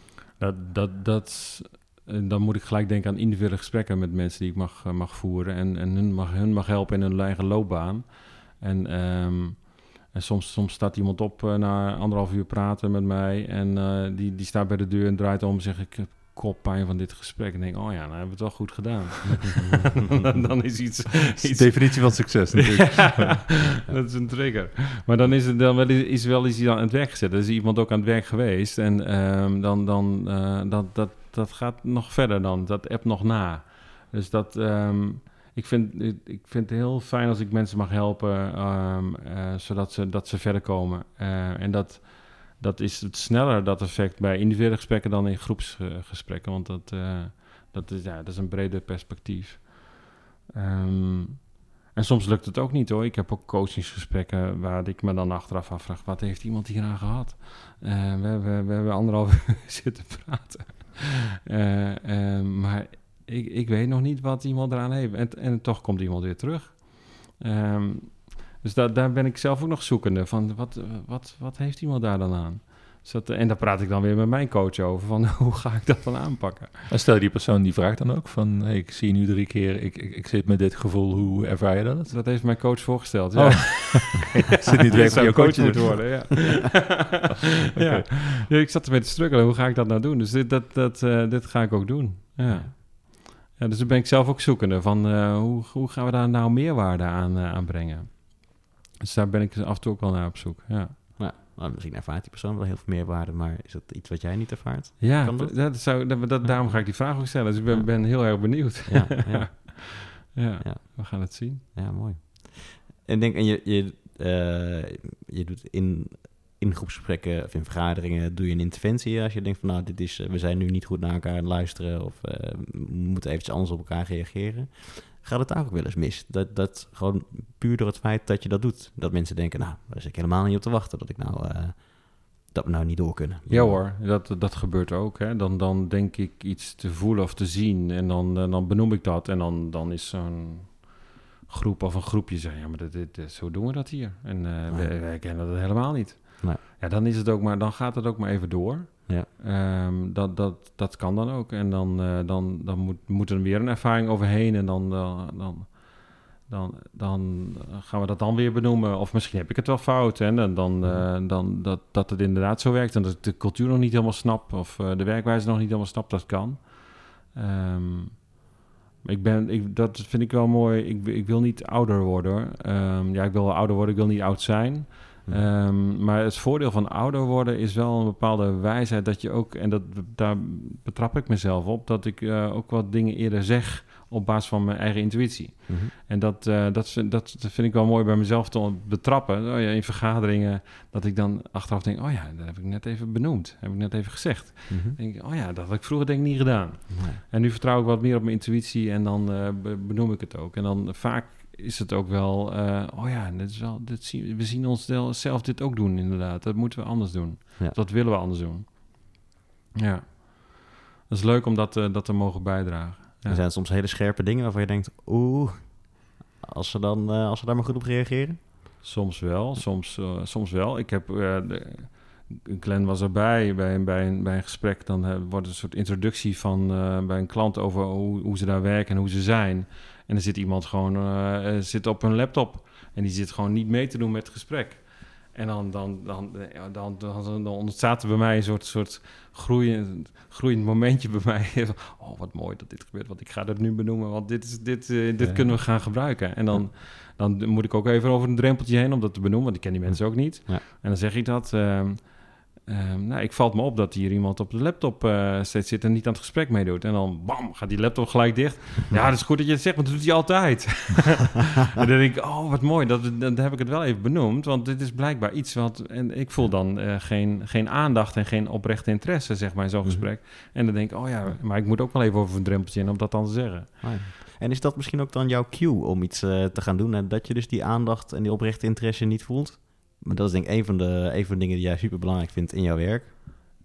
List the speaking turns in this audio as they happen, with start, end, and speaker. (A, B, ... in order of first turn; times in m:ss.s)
0:00.4-1:16.9 A
0:21.4-0:23.6 B
1:16.9-1:22.4 B
1:22.1-1:27.2 A
1:23.3-1:26.3 B
1:27.0-1:28.4 B
1:27.8-1:40.9 A
1:32.4-1:32.7 C
1:41.2-1:46.9 C
1:45.0-1:51.6 A
1:47.6-2:13.8 C
2:13.5-2:48.5 A
2:24.7-2:24.9 C
2:40.8-2:41.1 C
2:49.0-3:29.2 A
3:14.7-3:15.0 C
3:16.9-3:17.2 C
3:29.8-3:33.4 A
3:33.3-3:38.7 C
3:38.8-4:33.9 A
4:05.2-4:06.6 C
4:09.9-4:10.6 C
4:33.8-4:43.1 C